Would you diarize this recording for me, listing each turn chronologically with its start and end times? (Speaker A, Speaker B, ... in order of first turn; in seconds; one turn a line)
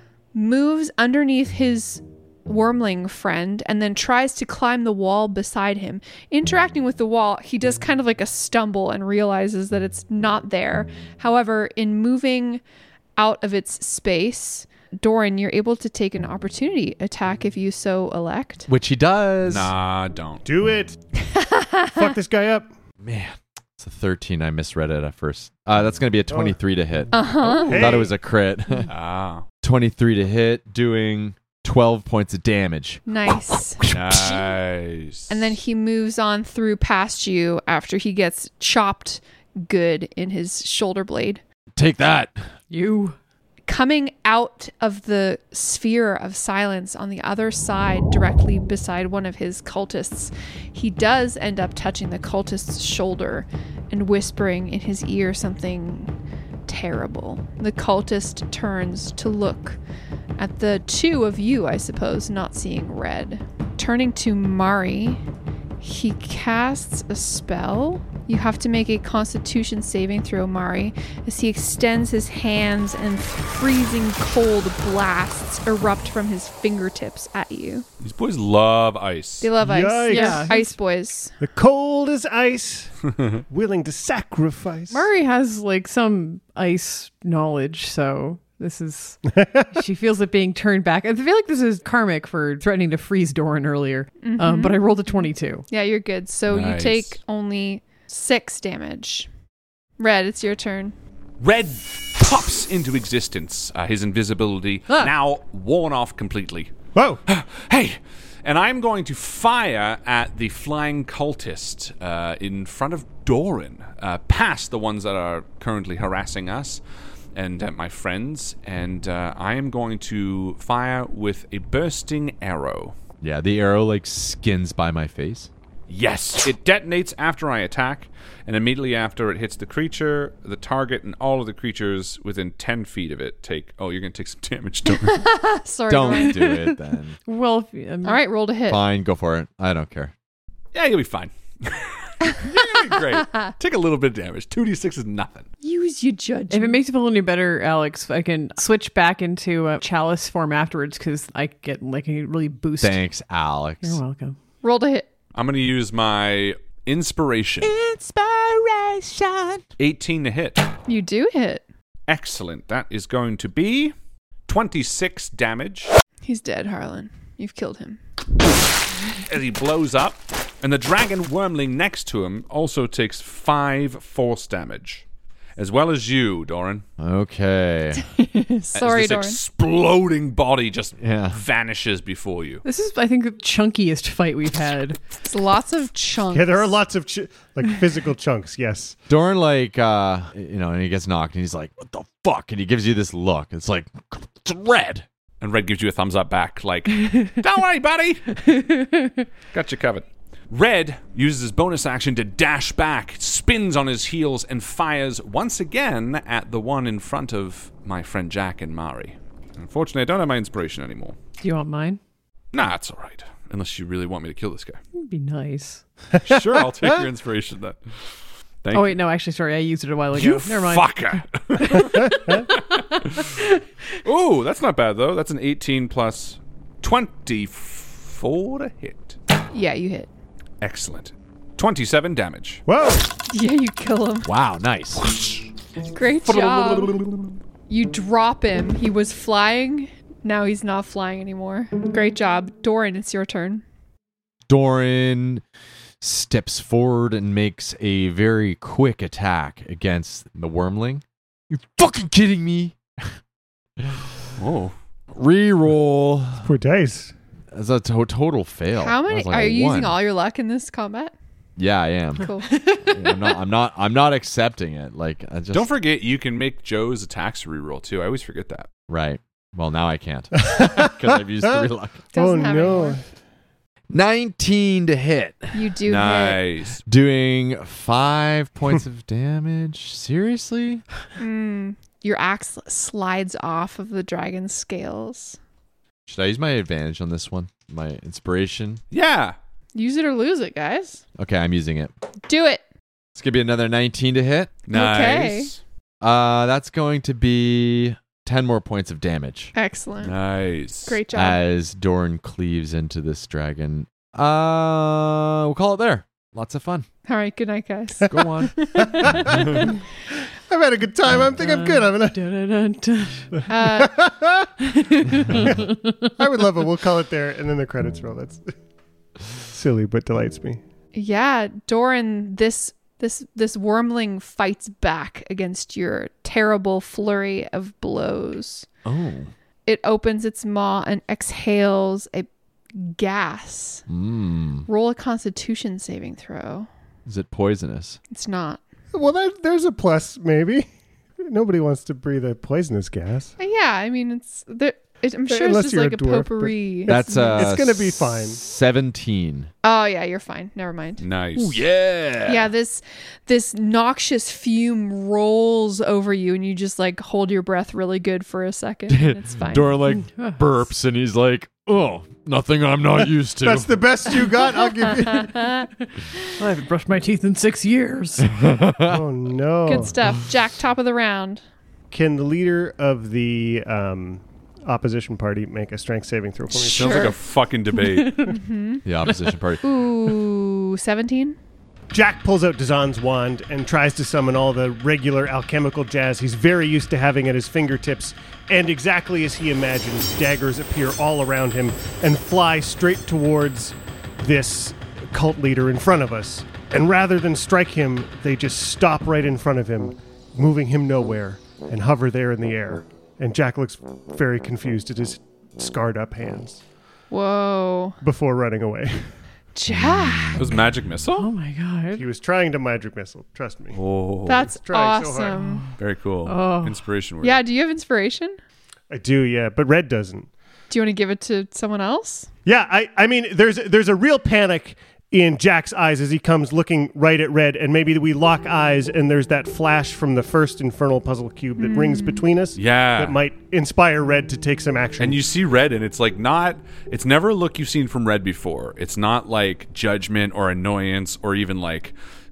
Speaker A: 0.3-12.6
Speaker A: 13.2-18.7
Speaker B: 18.7-19.7
Speaker C: 19.5-20.4
Speaker D: 20.4-21.0
Speaker A: 21.3-21.9
Speaker D: 21.9-22.7
Speaker B: 23.0-28.9
Speaker D: 26.3-26.6
Speaker A: 27.1-27.9
Speaker D: 27.5-28.1
Speaker C: 28.9-29.4
Speaker B: 29.6-33.0
Speaker A: 33.0-33.8
Speaker B: 33.8-34.5
Speaker C: 33.9-35.5
Speaker A: 35.3-41.4
Speaker B: 41.8-42.5
Speaker E: 42.7-43.1
Speaker A: 43.7-56.1
Speaker A: 56.7-59.8
Speaker A: 60.4-65.2
Speaker A: 65.8-77.8
Speaker C: 78.0-79.5
Speaker A: 79.4-81.3
Speaker D: 79.6-80.5
Speaker E: 80.1-80.8
Speaker D: 81.4-85.1
Speaker E: 84.9-89.2
Speaker D: 89.3-89.8
Speaker E: 89.7-95.7
Speaker A: 94.2-99.3
Speaker C: 96.5-97.2
Speaker A: 100.0-100.9
Speaker C: 101.4-106.7
Speaker D: 106.9-107.2
Speaker C: 107.3-116.8
Speaker C: 117.3-122.9
Speaker B: 123.2-125.5
Speaker C: 125.9-135.2
Speaker A: 135.0-136.4
Speaker B: 135.9-137.2
Speaker E: 136.1-138.2
Speaker A: 138.0-138.8
Speaker B: 138.7-140.1
Speaker C: 140.7-145.5
Speaker A: 145.6-146.8
Speaker E: 146.5-153.0
Speaker B: 152.8-154.0
Speaker E: 153.8-154.4
Speaker A: 154.6-155.1
Speaker C: 155.3-157.7
Speaker B: 157.6-159.6
Speaker C: 159.8-160.7
Speaker A: 160.9-161.6
Speaker C: 162.1-163.9
Speaker C: 164.5-165.9
Speaker A: 166.2-168.0
Speaker C: 169.2-175.0
Speaker C: 175.6-176.8
Speaker B: 177.0-178.0
Speaker A: 178.0-179.4
Speaker C: 178.7-182.6
Speaker B: 181.0-181.4
Speaker E: 182.6-185.0
Speaker A: 185.2-186.8
Speaker D: 186.3-189.0
Speaker B: 189.1-195.1
Speaker C: 195.4-198.5
Speaker E: 198.5-199.1
Speaker C: 199.5-211.2
Speaker E: 211.4-212.0
Speaker C: 212.5-214.8
Speaker E: 214.9-215.8
Speaker C: 216.2-219.0
Speaker D: 216.3-216.9
Speaker E: 218.7-222.4
Speaker C: 220.1-223.3
Speaker E: 222.9-223.5
Speaker C: 224.0-229.2
Speaker A: 229.5-230.1
Speaker C: 230.6-232.6
Speaker D: 232.7-233.1
Speaker A: 233.3-234.3
Speaker B: 234.2-235.0
Speaker C: 235.0-235.4
Speaker A: 235.9-236.9
Speaker C: 236.2-237.3
Speaker A: 237.7-243.6
Speaker B: 244.5-245.4
Speaker B: 246.0-253.2
Speaker B: 253.8-254.1
Speaker C: 254.4-254.7
Speaker B: 255.1-256.5
Speaker D: 256.4-257.1
Speaker B: 257.5-260.0
Speaker A: 258.7-261.1
Speaker B: 261.6-265.7
Speaker A: 262.2-262.5
Speaker E: 262.4-263.4
Speaker C: 265.5-268.7
Speaker B: 268.9-272.0
Speaker D: 270.4-273.0
Speaker A: 272.1-273.0
Speaker B: 273.9-275.6
Speaker A: 275.5-276.4
Speaker C: 275.9-276.8
Speaker B: 276.9-280.8
Speaker A: 281.2-285.4
Speaker B: 286.1-288.8
Speaker C: 288.9-289.3
Speaker A: 289.8-291.0
Speaker B: 291.2-291.9
Speaker A: 292.3-292.6
Speaker B: 293.1-294.5
Speaker C: 294.7-295.6
Speaker A: 294.7-295.5
Speaker B: 296.0-299.5
Speaker A: 299.5-300.1
Speaker C: 300.0-301.0
Speaker A: 300.9-301.4
Speaker B: 301.1-306.9
Speaker A: 307.1-309.0
Speaker B: 308.1-309.3
Speaker D: 308.1-309.7
Speaker D: 310.5-312.2
Speaker E: 311.4-313.3
Speaker A: 313.5-313.9
Speaker D: 313.5-314.5
Speaker E: 314.7-316.1
Speaker D: 315.3-318.4
Speaker D: 319.5-320.6
Speaker A: 320.9-328.6
Speaker B: 328.8-329.3
Speaker A: 329.6-333.8
Speaker B: 333.9-334.7
Speaker A: 334.7-336.7
Speaker B: 337.1-338.0
Speaker A: 338.1-338.6
Speaker D: 338.9-340.7
Speaker D: 341.2-343.3
Speaker A: 343.4-347.5
Speaker D: 345.3-348.4
Speaker B: 346.9-349.5
Speaker A: 349.6-351.0
Speaker C: 351.0-351.7
Speaker B: 351.3-352.5
Speaker A: 352.2-359.8
Speaker B: 358.9-363.9
Speaker E: 359.9-360.4
Speaker D: 363.4-365.4
Speaker A: 365.3-365.6
Speaker E: 366.4-368.3
Speaker B: 368.3-369.0
Speaker D: 368.8-369.9
Speaker A: 369.6-371.4
Speaker D: 371.9-377.2
Speaker A: 376.5-377.2
Speaker C: 376.7-378.4
Speaker E: 377.9-378.4
Speaker A: 378.2-378.8
Speaker B: 378.8-379.6
Speaker A: 379.6-381.4
Speaker D: 381.9-406.6
Speaker A: 407.1-408.0
Speaker D: 408.0-409.1
Speaker A: 409.5-410.4
Speaker B: 409.7-410.4
Speaker C: 410.4-411.3
Speaker E: 411.1-412.0
Speaker D: 411.9-413.8
Speaker C: 413.7-414.5
Speaker A: 414.2-415.6
Speaker D: 414.4-415.4
Speaker C: 415.8-417.4
Speaker E: 416.2-416.8
Speaker A: 417.2-418.4
Speaker D: 418.9-420.3
Speaker A: 420.7-422.3
Speaker D: 422.4-435.2
Speaker A: 431.6-432.3
Speaker C: 432.6-433.2
Speaker C: 435.0-441.9